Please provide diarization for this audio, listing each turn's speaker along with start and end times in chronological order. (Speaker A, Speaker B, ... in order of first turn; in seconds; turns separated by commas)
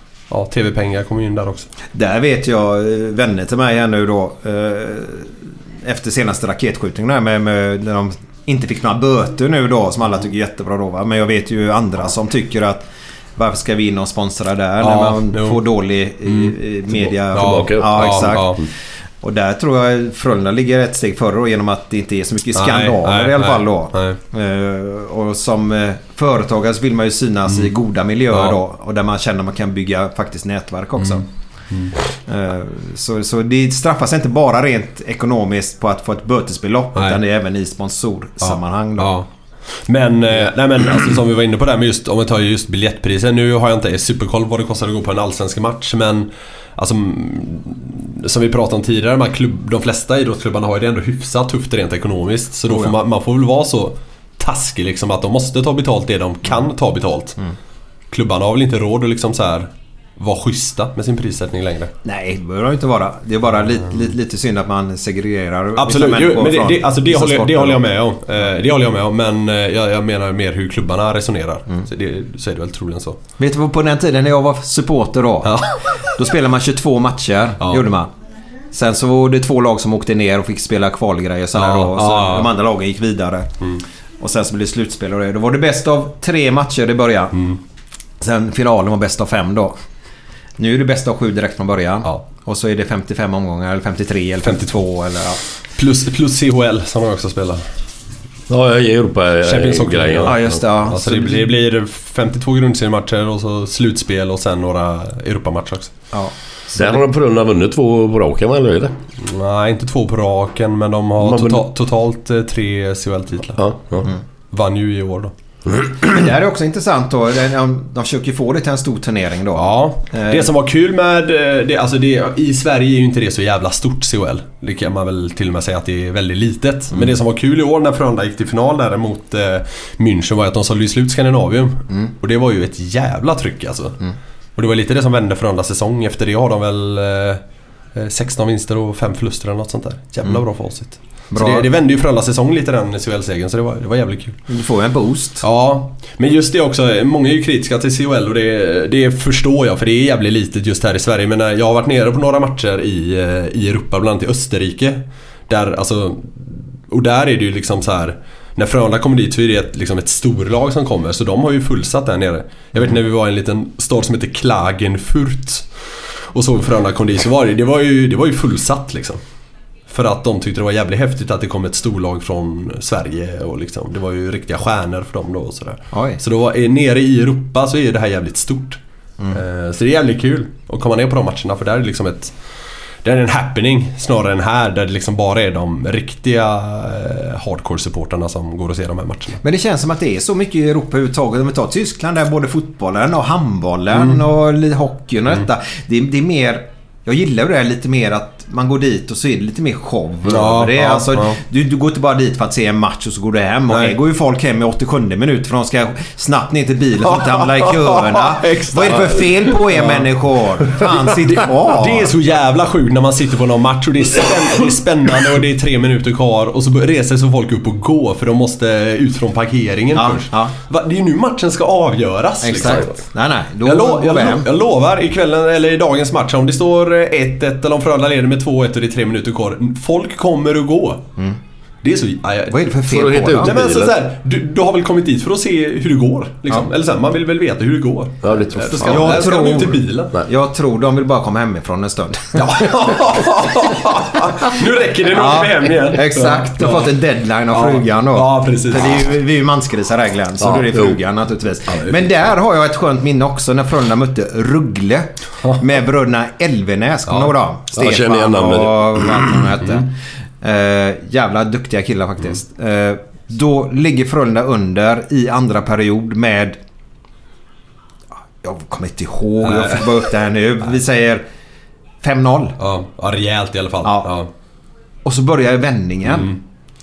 Speaker A: 0.3-1.7, Speaker B: 1.9-18.7, Speaker A: 14.8-15.6, Speaker A: 16.2-16.6, Speaker A: 17.3-18.6, Speaker C: 17.3-18.5, Speaker B: 19.2-31.2, Speaker A: 22.6-24.2, Speaker A: 28.3-28.6, Speaker A: 31.0-31.9, Speaker B: 32.3-39.1, Speaker A: 37.0-37.2, Speaker A: 38.4-39.3, Speaker A: 39.9-57.4, Speaker B: 52.7-52.9, Speaker A: 58.1-61.9, Speaker B: 62.0-67.8, Speaker A: 65.8-73.2, Speaker B: 73.4-75.6, Speaker A: 75.4-75.7, Speaker B: 76.2-78.1, Speaker A: 77.6-77.9, Speaker B: 78.7-83.5, Speaker A: 81.5-82.5, Speaker B: 84.2-87.3, Speaker B: 88.2-89.8, Speaker B: 90.6-95.4, Speaker A: 94.4-94.7, Speaker A: 95.8-97.7, Speaker C: 98.5-100.5, Speaker A: 99.5-105.9, Speaker B: 100.2-101.5, Speaker B: 106.1-107.0, Speaker C: 106.8-109.0, Speaker A: 109.2-113.6, Speaker C: 111.2-111.7, Speaker C: 113.6-114.1, Speaker A: 114.5-115.3, Speaker B: 116.1-120.5, Speaker A: 119.5-134.0, Speaker A: 134.6-137.4, Speaker A: 137.9-144.4, Speaker B: 141.3-141.7, Speaker B: 144.5-145.4, Speaker A: 145.4-165.7, Speaker A: 166.3-169.2, Speaker A: 169.9-178.8, Speaker B: 175.9-176.2, Speaker A: 179.3-182.3, Speaker A: 183.0-189.4, Speaker B: 189.4-212.2, Speaker A: 193.9-194.2, Speaker A: 200.2-201.4, Speaker A: 203.7-204.0, Speaker A: 207.1-210.1, Speaker A: 211.3-222.9, Speaker B: 219.9-220.5, Speaker B: 222.4-224.5, Speaker C: 222.6-222.9, Speaker A: 223.6-231.1, Speaker A: 231.8-232.8, Speaker B: 232.5-233.5, Speaker C: 232.9-233.9, Speaker A: 233.4-240.2, Speaker C: 238.2-239.3, Speaker B: 238.8-243.0, Speaker A: 242.4-246.9, Speaker B: 245.1-266.6, Speaker A: 247.5-249.1, Speaker C: 250.4-251.0, Speaker A: 257.1-257.3, Speaker C: 257.7-259.5, Speaker B: 268.4-271.3, Speaker A: 269.4-269.9, Speaker B: 272.0-272.6, Speaker A: 272.6-274.3, Speaker B: 273.8-274.1, Speaker B: 275.0-276.3, Speaker A: 276.1-276.4